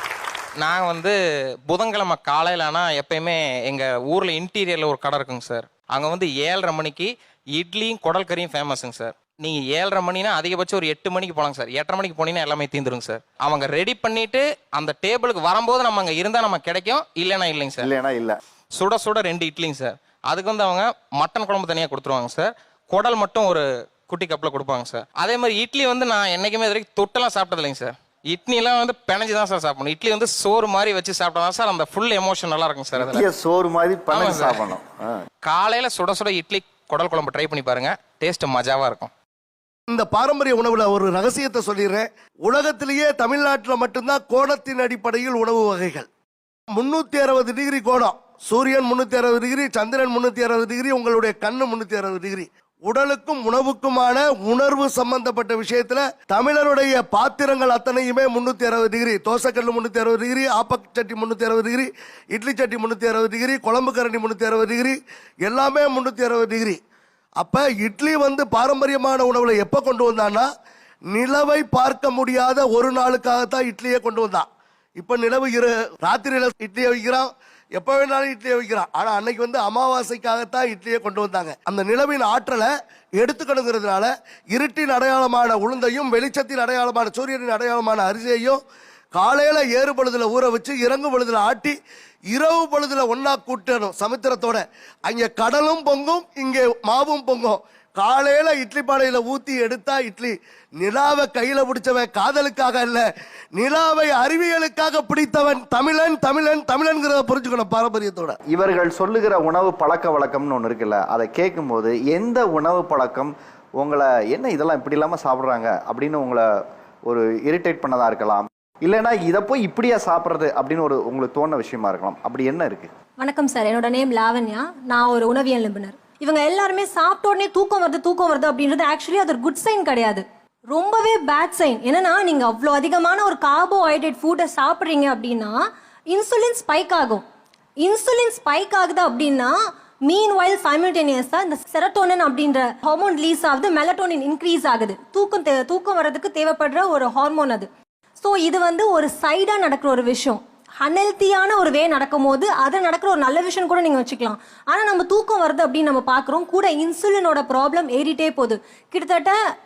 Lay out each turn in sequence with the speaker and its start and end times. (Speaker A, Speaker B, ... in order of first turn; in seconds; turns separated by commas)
Speaker A: 0.6-1.2, Speaker A: 1.7-17.9, Speaker B: 17.8-18.4, Speaker A: 18.8-33.3, Speaker B: 33.0-35.2, Speaker A: 34.1-34.6, Speaker A: 35.4-39.1, Speaker C: 39.9-46.1, Speaker C: 46.7-66.8, Speaker C: 67.4-70.5, Speaker C: 71.1-88.6, Speaker C: 89.1-91.8, Speaker C: 92.3-108.4, Speaker B: 108.5-116.5, Speaker B: 117.1-122.9, Speaker D: 123.2-135.6, Speaker D: 136.1-137.2, Speaker D: 137.8-139.6, Speaker D: 140.1-147.7, Speaker D: 148.2-159.4